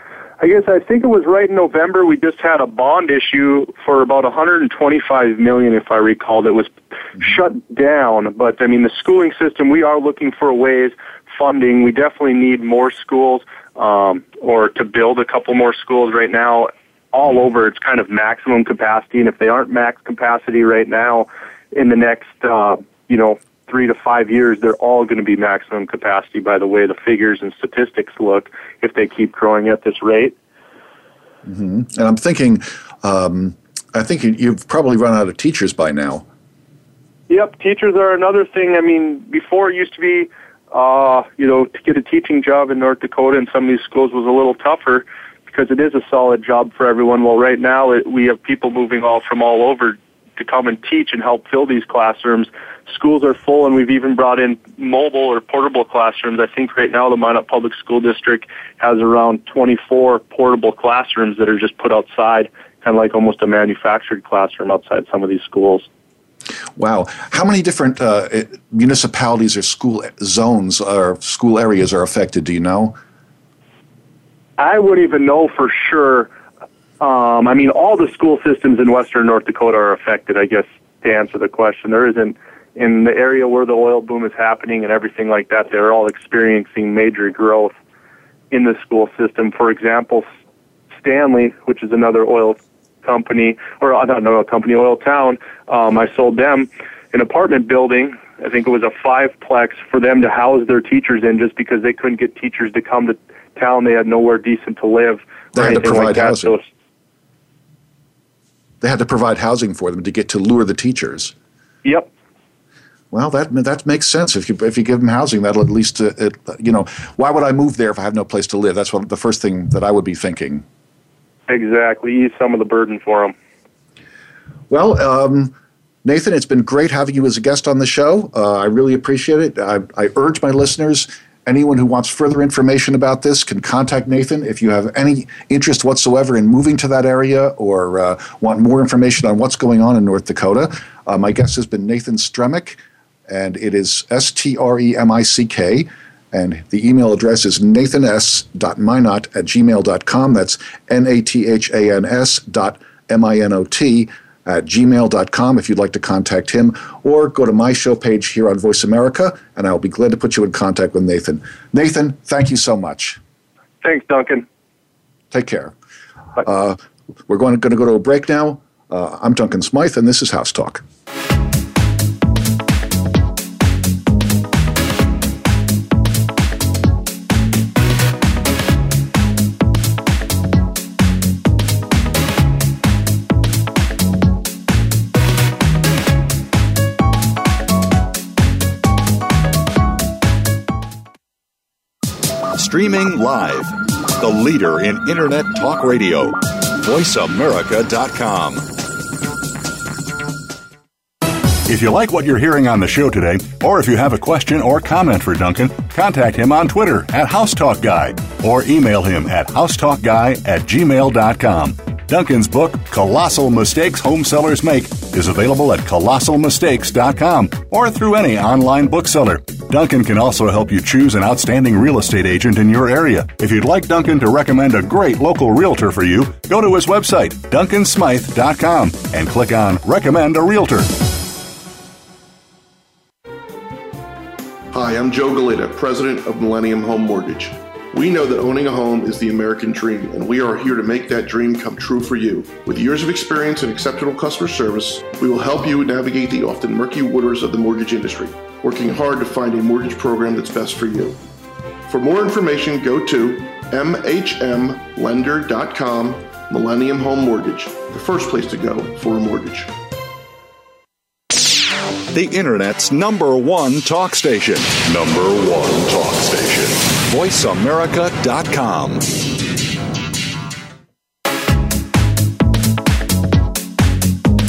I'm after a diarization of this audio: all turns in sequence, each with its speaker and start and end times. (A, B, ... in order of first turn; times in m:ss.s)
0:00.4-0:30.4 A
0:31.4-0:36.2 B
0:37.3-1:05.9 A
1:06.8-1:13.0 B
1:14.6-1:16.3 A
1:17.0-1:27.7 A
1:28.5-1:30.3 A
1:31.0-1:46.6 A
1:45.5-1:46.6 B
1:48.8-1:51.3 B
1:51.8-1:52.1 A
1:53.1-2:00.6 B
2:01.5-2:03.3 A
2:04.7-2:43.2 B
2:43.8-2:44.4 A
2:45.3-2:45.7 B
2:46.4-2:50.8 B
3:12.6-3:18.7 C
3:21.7-3:50.9 C
3:54.7-4:11.2 D
4:11.9-4:19.7 D
4:22.1-4:29.1 C